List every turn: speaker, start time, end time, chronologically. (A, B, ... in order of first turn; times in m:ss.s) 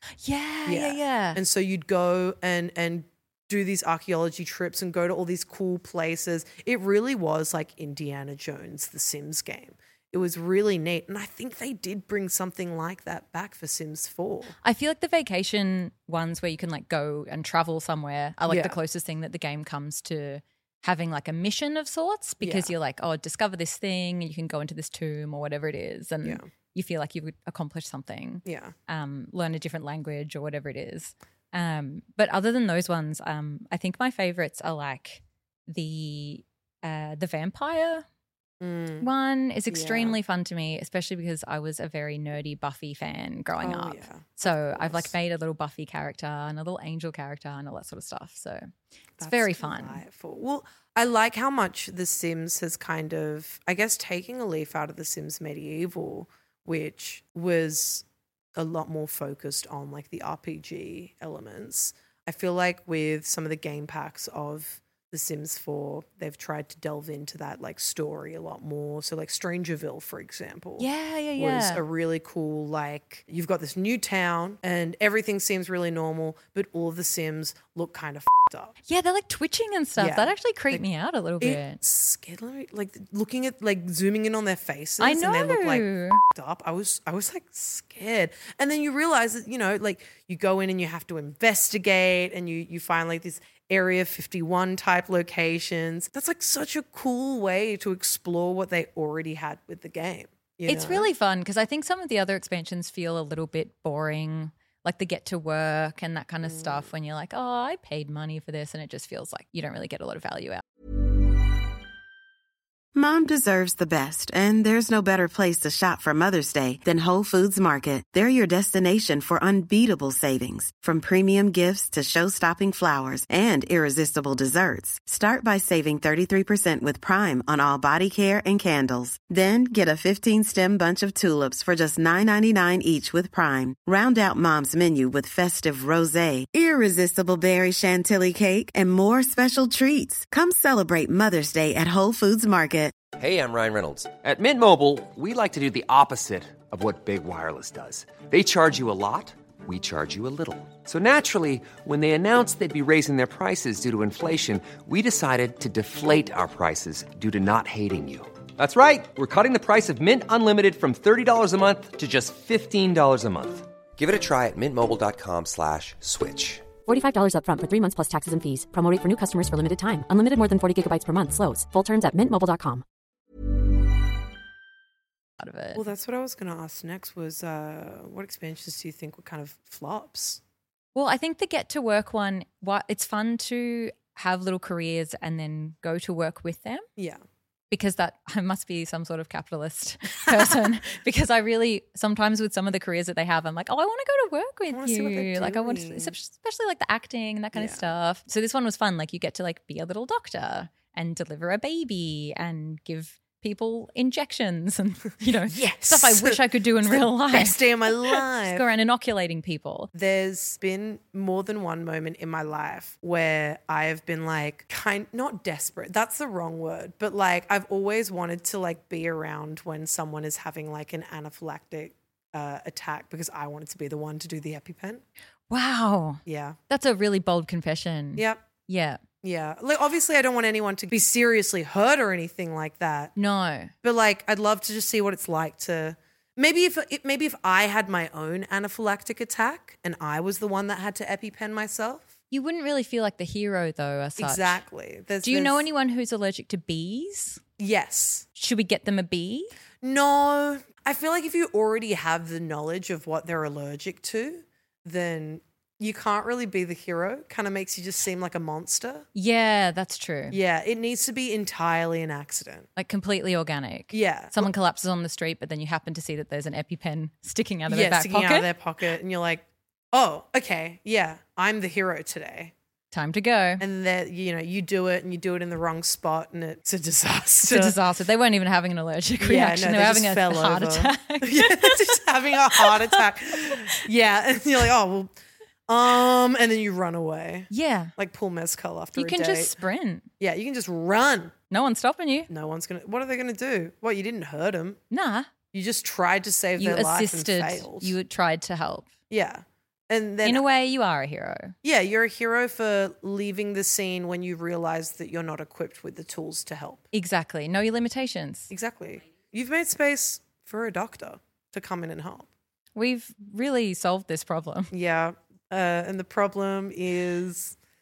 0:00.2-0:01.4 A
0:00.6-0:14.6 B
0:14.6-0:38.0 A
0:18.4-0:18.8 B
0:22.4-0:22.7 B
0:28.4-0:28.8 B
0:38.6-0:39.1 B
0:39.0-0:50.0 A
0:39.7-0:40.2 B
0:43.6-0:45.1 B
0:49.2-1:18.7 B
1:10.8-1:11.8 A
1:18.9-1:21.8 A
1:20.0-1:20.8 B
1:21.4-1:41.1 B
1:25.0-1:26.2 A
1:40.6-1:50.6 A
1:46.4-1:46.8 B
1:52.9-2:22.9 C
2:23.2-2:46.7 D
2:46.8-2:52.8 E
2:55.4-2:55.8 A
2:55.8-3:00.4 B
3:00.9-3:06.8 A
3:07.0-3:07.2 B
3:07.7-3:29.9 A
3:14.7-3:16.2 B
3:17.5-3:17.9 B
3:25.5-3:28.6 B
3:29.9-3:45.0 B
3:45.5-3:49.0 A
3:46.3-3:46.6 B
3:48.2-3:48.5 B
3:49.2-3:53.1 B
3:53.2-3:53.7 A
3:53.8-4:02.1 B
4:02.3-4:04.6 A
4:04.2-4:05.7 B
4:05.2-4:07.4 A
4:07.6-4:08.3 B
4:08.4-4:09.5 A
4:09.8-4:19.1 B
4:19.1-4:20.4 A
4:20.3-4:22.7 B
4:22.8-4:28.5 A
4:23.9-4:24.5 B
4:27.7-4:32.5 B
4:32.9-4:33.6 A
4:33.6-4:37.8 B
4:37.4-4:41.9 A
4:39.2-4:45.1 B
4:42.6-4:43.7 A
4:45.7-4:49.6 B
4:47.5-4:47.9 A
4:49.0-4:50.1 A
4:50.2-4:51.4 B
4:51.5-4:52.3 A
4:52.3-4:54.8 B
4:54.9-4:55.3 A
4:55.5-4:58.0 B
4:56.6-4:58.9 A
4:59.1-5:00.4 B
5:00.2-5:01.6 A
5:01.6-5:06.9 B
5:06.9-5:08.5 A
5:08.5-5:12.3 B
5:12.8-5:14.7 A
5:14.7-5:17.6 B